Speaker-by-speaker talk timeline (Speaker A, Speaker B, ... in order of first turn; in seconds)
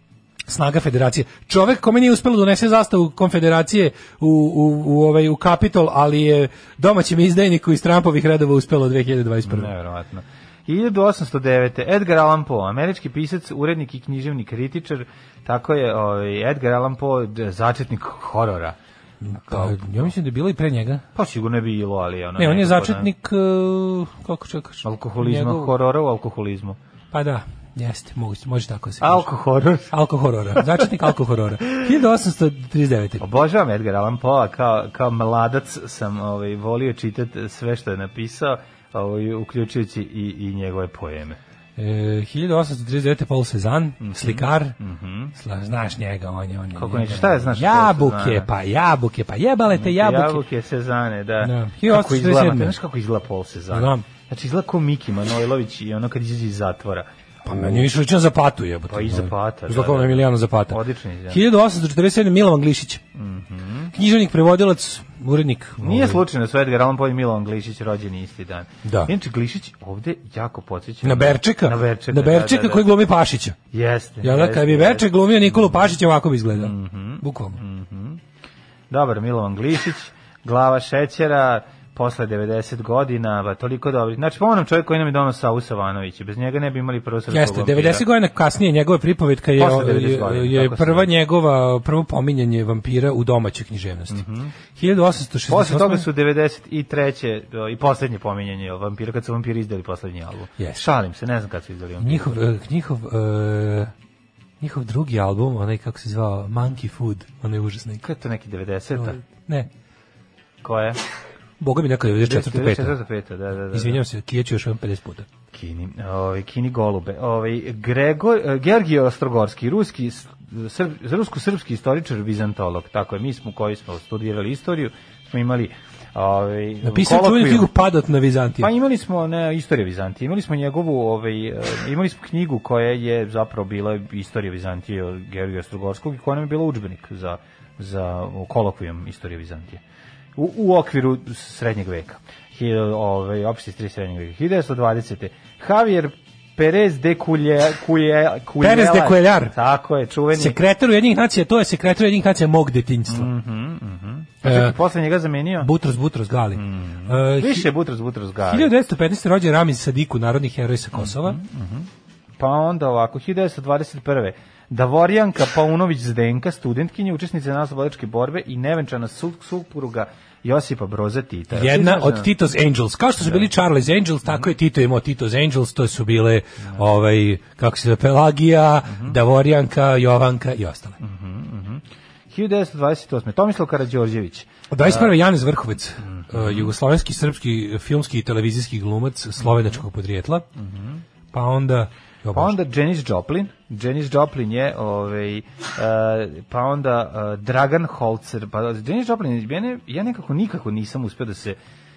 Speaker A: 0.5-9.7, 19.2-21.0, 22.4-25.7, 27.1-29.2, 29.9-33.2, 41.8-44.8, 45.4-50.4, 51.4-52.8, 53.7-54.0, 57.5-63.0, 63.9-66.2, 68.8-69.1, 71.0-73.6, 74.2-77.6, 87.3-96.0, 102.0-103.9, 104.6-108.0, 109.0-109.7, 111.6-113.0, 113.7-115.3, 126.8-128.7, 148.6-149.5, 150.3-153.3, 154.4-154.8, 155.6-157.7, 158.5-161.4, 171.5-181.0, 184.7-190.5, 191.3-192.6
Speaker B: 9.4-18.8, 19.5-20.0, 21.1-23.1, 24.8-26.8, 29.0-29.9, 33.2-41.4, 44.0-45.3, 46.8-48.5, 49.7-57.9, 58.9-61.4, 63.1-63.9, 65.8-72.8, 73.7-75.8, 76.5-78.2, 78.9-88.0, 89.6-91.1, 94.1-94.5, 95.5-102.4, 108.0-109.2, 110.6-111.0, 112.2-114.0, 115.5-127.7, 128.6-139.8, 140.4-150.6, 153.1-155.7, 156.5-158.7, 161.0-161.9, 162.4-172.3, 181.0-185.1, 186.1-186.7, 189.5-189.7, 190.6-191.0, 192.3-201.6